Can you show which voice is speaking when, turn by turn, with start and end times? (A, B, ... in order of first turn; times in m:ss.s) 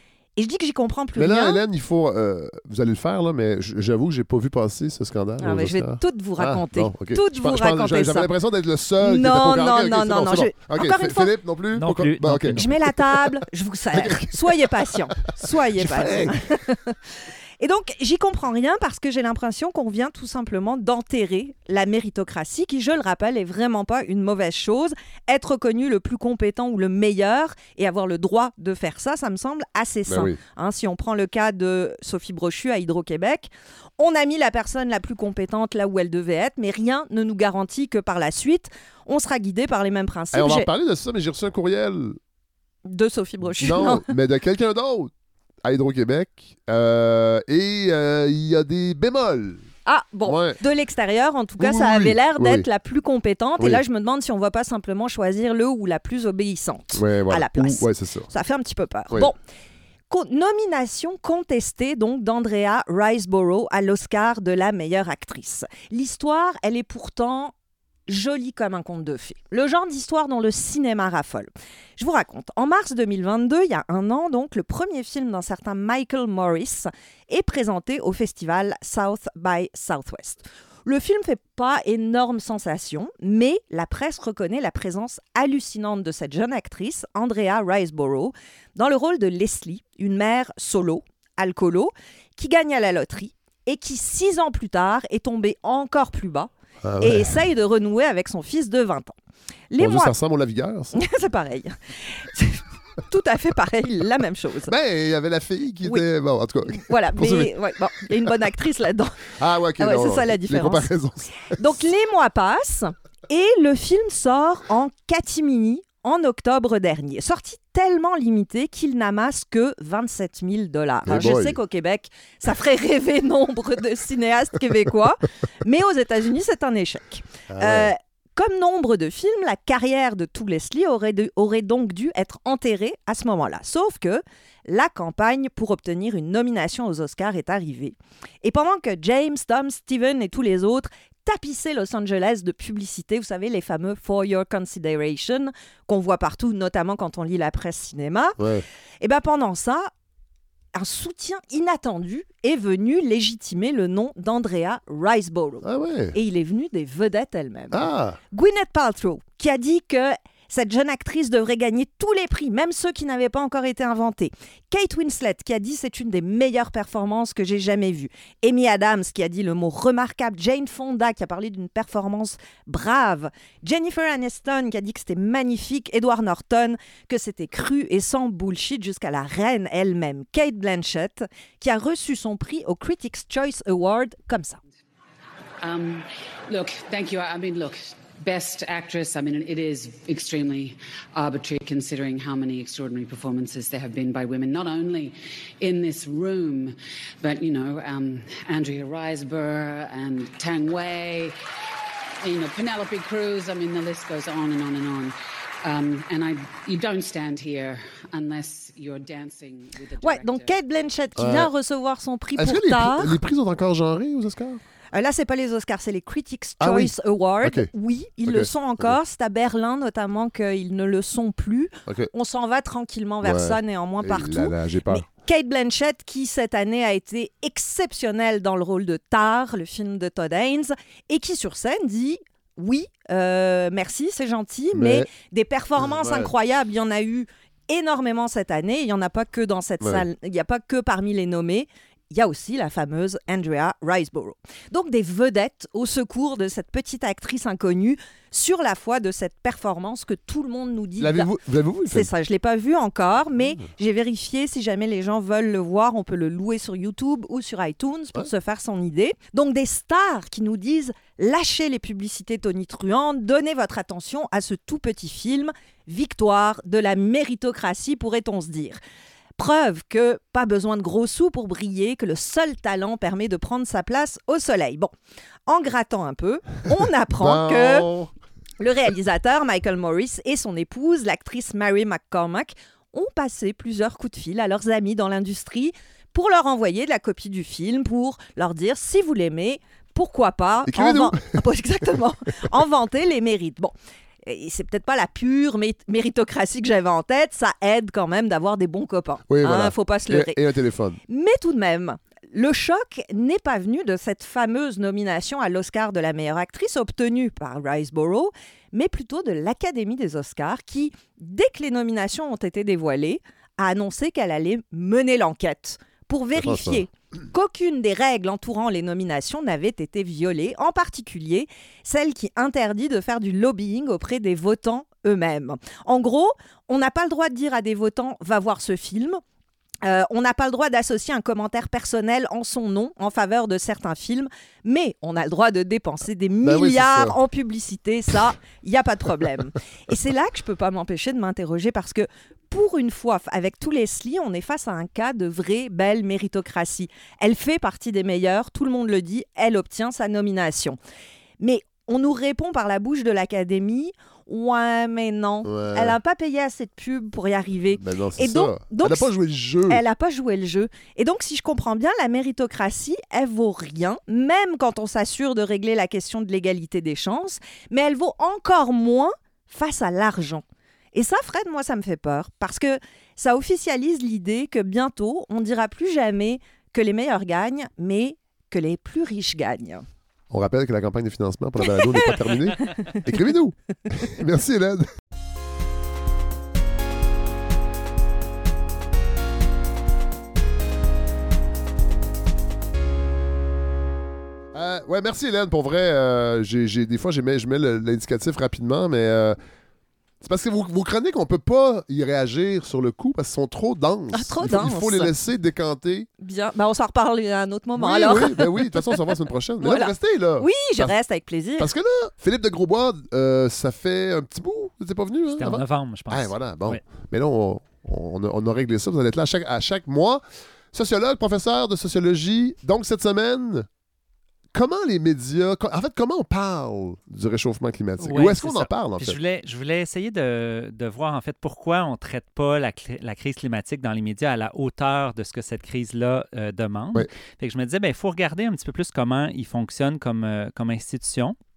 0:00.4-0:01.6 A
0:01.2-0:13.4 B
0:05.4-0:08.3 A
0:09.0-0:11.3 A
0:11.8-0:12.7 C
0:12.6-0:17.0 A
0:13.9-0:16.4 B
0:17.6-0:40.7 A
0:30.1-0:30.4 B
0:40.3-0:42.2 B
0:42.9-0:44.0 A
0:43.6-0:45.1 B
0:45.6-0:49.7 B
0:49.8-0:59.4 A
0:50.2-0:50.6 B
0:51.6-0:52.7 B
0:53.6-0:53.8 B
0:56.9-0:58.3 B
1:00.1-1:07.5 A
1:08.1-1:36.5 A
1:36.8-1:37.4 B
1:37.0-1:39.2 A
1:39.7-1:40.1 A
1:39.8-1:41.0 B
1:40.9-1:44.7 A
1:44.7-1:47.5 B
1:46.7-1:50.9 A
1:49.4-1:51.6 B
1:51.6-2:28.4 A
2:01.1-2:01.6 B
2:07.5-2:07.9 B
2:28.4-2:28.6 B
2:29.0-2:29.9 A
2:30.8-3:04.6 A
2:35.6-2:36.2 B
2:37.7-2:38.2 B
3:05.6-3:21.4 D
3:22.2-3:30.5 D
3:30.0-3:33.2 A
3:31.2-3:31.5 B
3:32.4-3:34.6 B
3:34.9-4:11.3 A
3:36.6-3:37.7 B
3:38.2-3:39.0 B
3:43.2-3:45.1 B
3:54.7-3:55.1 B
3:55.8-3:56.3 B
4:11.0-4:12.1 B
4:11.9-4:28.8 A
4:13.4-4:13.7 B
4:29.4-4:34.9 A
4:35.5-4:37.9 A
4:37.2-4:38.1 B
4:38.6-5:00.4 A
4:50.7-4:51.4 B
4:59.3-5:01.0 B
5:01.1-5:29.2 A
5:16.4-5:16.8 B
5:29.8-5:50.8 A
5:36.4-5:37.2 B
5:51.4-5:59.1 A
5:55.4-5:56.0 B
5:57.7-5:59.8 B
5:59.7-6:19.8 A
6:20.3-6:24.9 B
6:34.5-6:39.4 B
6:40.2-6:46.1 B
6:44.1-6:45.1 A
6:46.2-6:49.0 A
6:47.8-6:51.0 B
6:49.6-6:51.7 A
6:51.6-7:03.7 B
6:55.4-6:56.8 C
7:04.5-7:09.2 B
7:08.0-7:21.4 C